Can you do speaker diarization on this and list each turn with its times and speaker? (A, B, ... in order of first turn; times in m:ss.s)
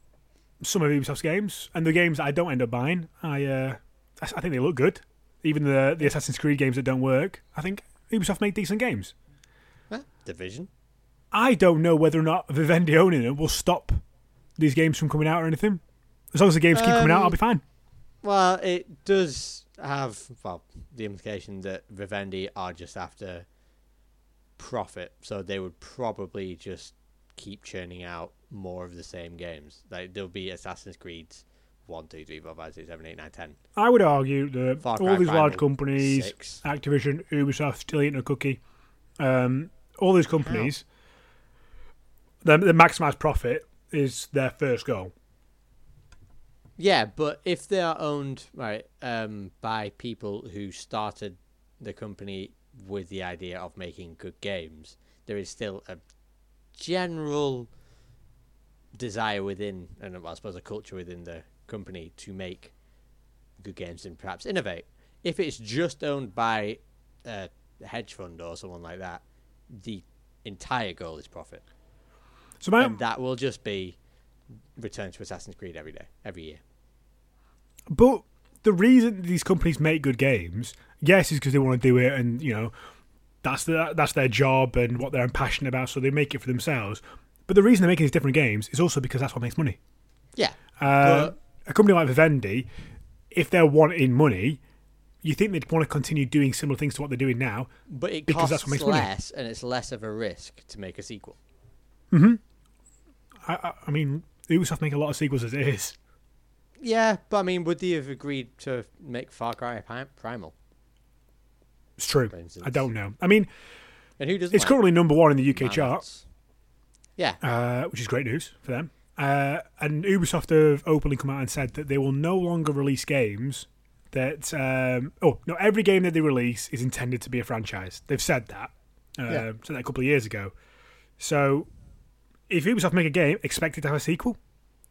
0:00.6-0:09.1 A
0:09.9-0:10.7 B
0:11.3-0:14.0 A
0:14.6-0:15.8 A
0:16.3-0:17.6 A
0:16.7-0:17.4 B
0:18.2-0:23.5 B
0:24.6-0:33.6 B
0:33.8-0:38.6 A
0:34.8-0:36.6 B
0:39.2-0:40.8 A
0:42.4-0:45.1 A
0:46.8-0:56.0 B
0:56.8-0:57.7 B
0:58.9-1:02.7 B
1:03.6-1:11.6 B
1:12.6-1:13.0 A
1:12.8-1:14.0 B
1:14.8-1:16.6 B
1:17.9-1:22.7 A
1:23.4-1:29.8 A
1:30.4-1:31.3 B
1:30.8-1:32.7 A
1:33.3-1:34.6 A
1:35.2-1:37.7 A
1:37.9-1:41.4 B
1:38.3-1:39.1 A
1:42.1-1:42.4 A
1:43.5-1:46.0 A
1:46.8-1:50.5 B
1:52.0-1:53.5 A
1:52.3-1:52.9 B
1:54.2-1:55.0 B
1:54.5-1:56.0 A
1:55.5-1:56.2 B
1:57.4-2:10.5 A
2:11.2-2:11.7 A
2:12.5-2:14.4 A